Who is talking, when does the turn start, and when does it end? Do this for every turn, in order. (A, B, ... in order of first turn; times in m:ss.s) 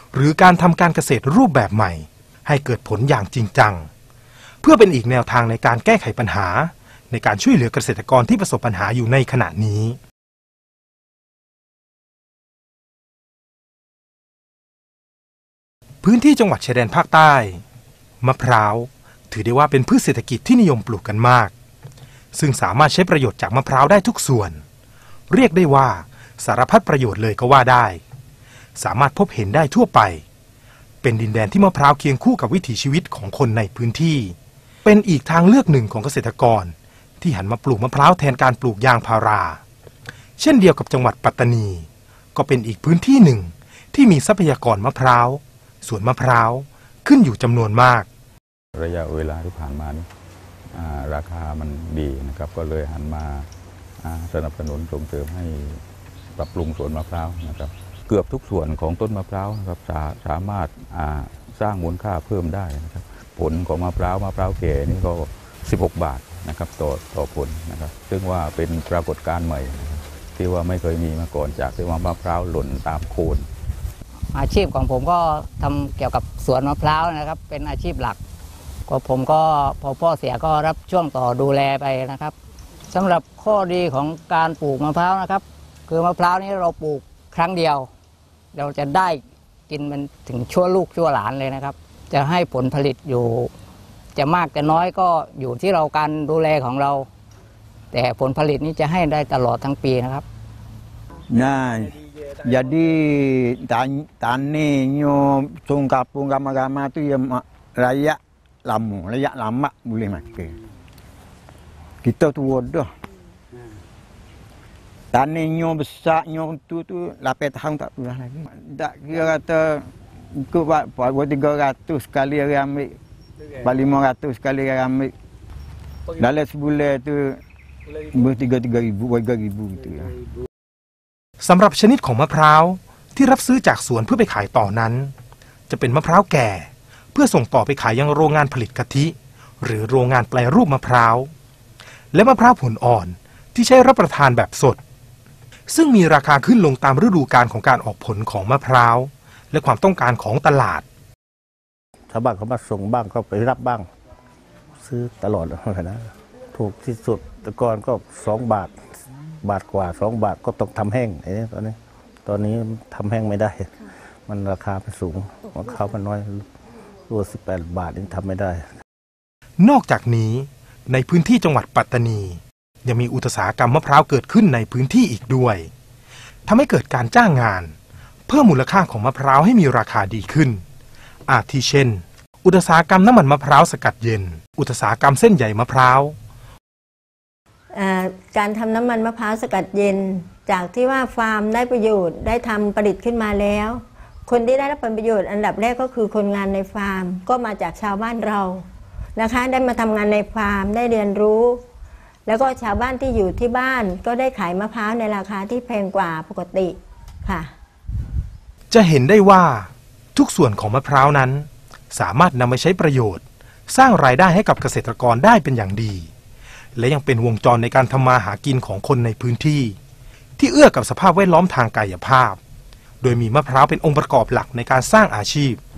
0:00.1-0:03.9 A
0:04.6-0:10.0 A
0:16.0-0:17.6 A
0:18.2-0:21.5 A
0:22.3-0:24.6 A
0:25.3-0:28.0 A
0:28.8-0:30.2 A
0:31.0-0:39.6 A
0:40.4-0:48.1 A
0:48.7-0:50.1 B
0:50.7-0:53.5 B
0:54.0-0:55.8 B
0:56.3-1:13.5 B
1:14.3-1:18.2 C
1:18.9-1:22.3 C
1:22.9-1:27.9 C
1:28.5-1:33.5 C
1:34.1-1:37.1 C
1:37.9-1:40.2 C
1:41.3-1:50.6 D
1:52.0-1:52.9 D
1:55.1-1:59.8 D
2:00.3-2:02.9 D
2:03.6-2:05.1 D
2:06.2-2:07.4 D
2:08.0-2:10.1 D
2:11.4-2:15.1 A
2:15.7-2:21.3 A
2:22.1-2:24.8 A
2:25.7-2:30.8 A
2:32.1-2:33.8 E
2:34.8-2:38.8 E
2:39.4-2:46.4 E
2:47.1-2:48.6 E
2:49.6-2:55.7 A
2:56.5-2:57.7 A
2:58.3-3:00.6 A
3:01.3-3:06.2 A
3:07.7-3:18.6 F
3:19.2-3:21.6 F
3:22.2-3:27.5 F
3:28.7-3:36.1 A
3:36.8-3:39.8 A
3:40.4-3:42.4 A
3:43.0-3:45.6 A